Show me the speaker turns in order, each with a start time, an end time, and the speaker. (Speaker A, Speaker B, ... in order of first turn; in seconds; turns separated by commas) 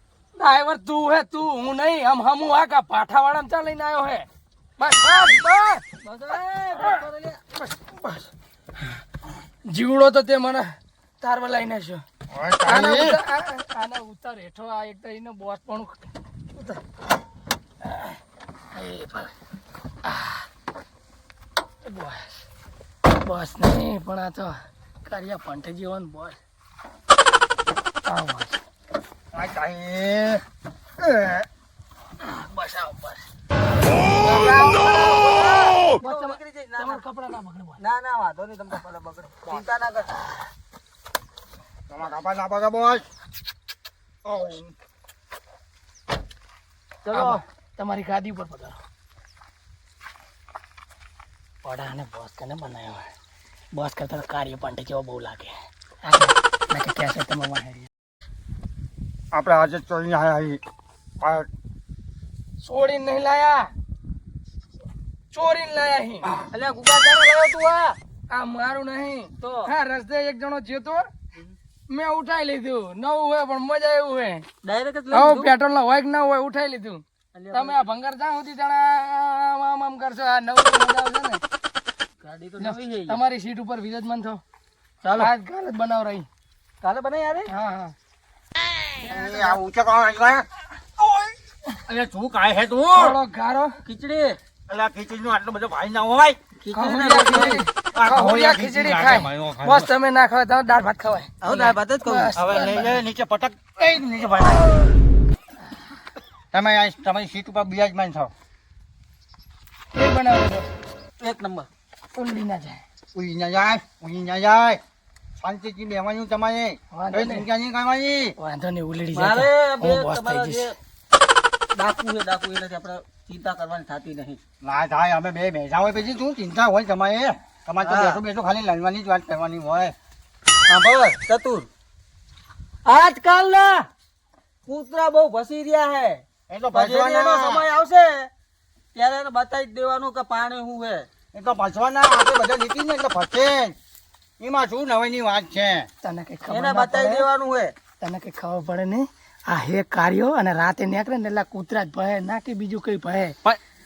Speaker A: 0.4-4.3, Speaker A: 4.8-5.8, Speaker B: 6.0-7.4, Speaker A: 7.7-8.3, Speaker A: 9.7-10.7, Speaker A: 11.2-12.0, Speaker C: 12.3-13.2, Speaker A: 12.7-16.0, Speaker A: 17.8-18.2, Speaker A: 18.7-19.3, Speaker A: 20.0-20.5, Speaker A: 21.8-22.3, Speaker A: 23.1-26.4, Speaker A: 28.1-28.6, Speaker C: 29.3-30.4, Speaker C: 31.0-31.5, Speaker A: 32.2-33.2, Speaker B: 34.2-37.0, Speaker A: 36.0-37.8, Speaker B: 37.8-40.2, Speaker C: 41.9-43.0, Speaker C: 44.3-44.7, Speaker B: 47.0-47.4, Speaker A: 47.1-48.8, Speaker A: 51.6-53.1, Speaker A: 53.7-57.9, Speaker C: 59.3-60.6, Speaker C: 61.2-61.5, Speaker A: 62.6-63.7, Speaker A: 65.3-66.3, Speaker B: 66.3-68.0, Speaker A: 68.3-71.1, Speaker B: 69.4-69.7, Speaker A: 71.9-74.5, Speaker B: 74.6-75.5, Speaker A: 75.1-81.4, Speaker B: 77.3-77.8, Speaker B: 82.2-83.2, Speaker A: 82.6-84.4, Speaker B: 85.0-85.3, Speaker A: 85.2-86.3, Speaker B: 86.8-87.5, Speaker A: 87.5-87.9, Speaker C: 89.0-90.5, Speaker B: 89.2-89.6, Speaker C: 91.8-93.2, Speaker A: 93.0-93.8, Speaker B: 93.8-94.4, Speaker C: 94.7-96.4, Speaker B: 96.6-97.6, Speaker A: 96.7-103.0, Speaker C: 97.2-99.9, Speaker B: 101.4-102.4, Speaker C: 102.3-104.9, Speaker C: 106.5-108.3, Speaker A: 109.9-110.7, Speaker B: 111.2-111.7, Speaker A: 112.1-112.8, Speaker C: 113.1-114.8, Speaker C: 115.4-118.3, Speaker A: 116.9-117.5, Speaker A: 118.4-120.7, Speaker B: 119.1-120.8, Speaker B: 121.7-124.4, Speaker C: 124.6-129.9, Speaker B: 127.8-128.2, Speaker B: 130.7-131.7, Speaker B: 132.8-133.9, Speaker B: 134.7-138.3, Speaker C: 136.5-137.7, Speaker B: 138.9-141.1, Speaker C: 141.3-143.8, Speaker C: 144.4-145.9, Speaker A: 146.0-147.3, Speaker B: 146.5-147.7, Speaker A: 148.0-153.4